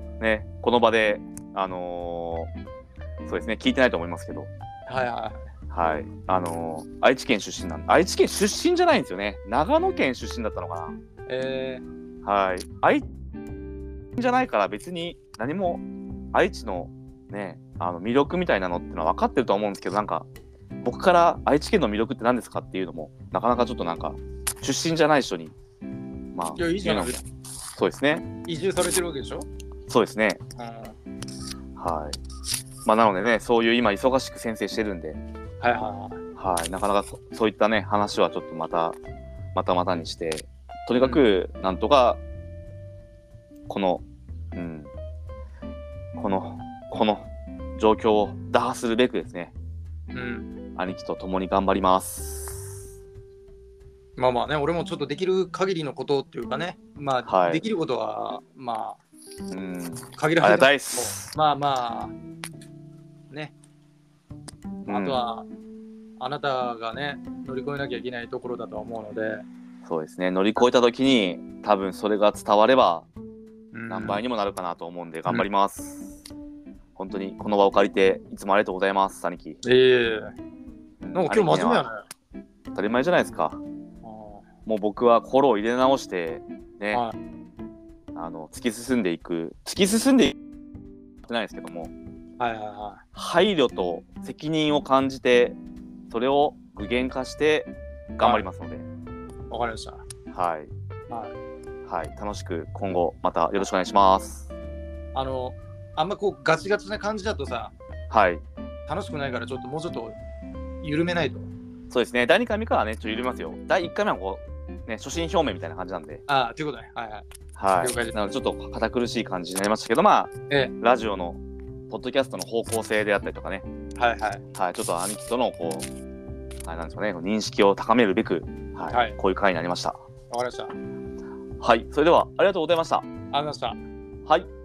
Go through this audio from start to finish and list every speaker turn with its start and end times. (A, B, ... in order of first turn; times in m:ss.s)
0:00.2-0:02.5 A
0:03.3-0:04.5 A
0:04.9-0:05.5 B
0:05.7-0:11.0 A
0:11.3-0:11.8 B
0:12.2-0:13.1 A
0:14.2-0:15.8 A
0:16.3-0:20.3 A
0:20.8-0:25.6 A
0:26.3-0:27.2 A
0:26.6-0:27.2 B
0:27.8-0:28.3 A
0:28.5-0:29.5 B
0:29.9-0:30.4 A
0:30.6-0:31.0 B
0:31.8-0:32.2 A
0:32.8-0:35.2 A
0:35.6-0:36.2 B
0:36.4-0:39.0 A
0:39.5-0:42.2 A
0:41.0-0:41.2 B
0:43.7-0:44.0 A
0:44.6-0:44.9 A
0:46.2-0:49.5 A
0:50.1-0:50.5 B
0:50.8-0:52.8 A
0:54.2-0:59.0 B
0:57.3-0:57.6 A
0:59.5-1:01.3 A
1:00.1-1:02.2 B
1:04.8-1:05.2 A
1:04.9-1:05.5 B
1:06.2-1:09.4 B
1:09.8-1:13.1 A
1:13.7-1:14.2 B
1:13.9-1:16.2 A
1:17.0-1:19.6 A
1:19.6-1:20.3 B
1:21.0-1:21.9 A
1:21.1-1:22.0 B
1:22.7-1:23.6 A
1:24.0-1:24.4 B
1:24.7-1:27.0 A
1:28.2-1:30.4 A
1:31.2-1:31.9 A
1:32.4-1:33.0 B
1:33.2-1:35.6 A
1:36.1-1:38.9 A
1:39.5-1:40.0 B
1:40.3-1:40.7 A
1:41.1-1:41.3 B
1:41.9-1:44.5 A
1:45.1-1:47.7 B
1:48.1-1:48.4 A
1:48.9-1:50.2 B
1:50.8-1:51.5 B
1:51.9-1:56.2 A
1:56.3-1:57.3 B
1:57.6-2:03.6 A
1:57.8-1:58.2 B
2:04.0-2:04.4 B
2:04.6-2:05.9 A
2:06.6-2:10.0 A
2:08.9-2:09.2 B
2:10.3-2:10.7 B
2:11.6-2:13.1 A
2:13.3-2:13.8 B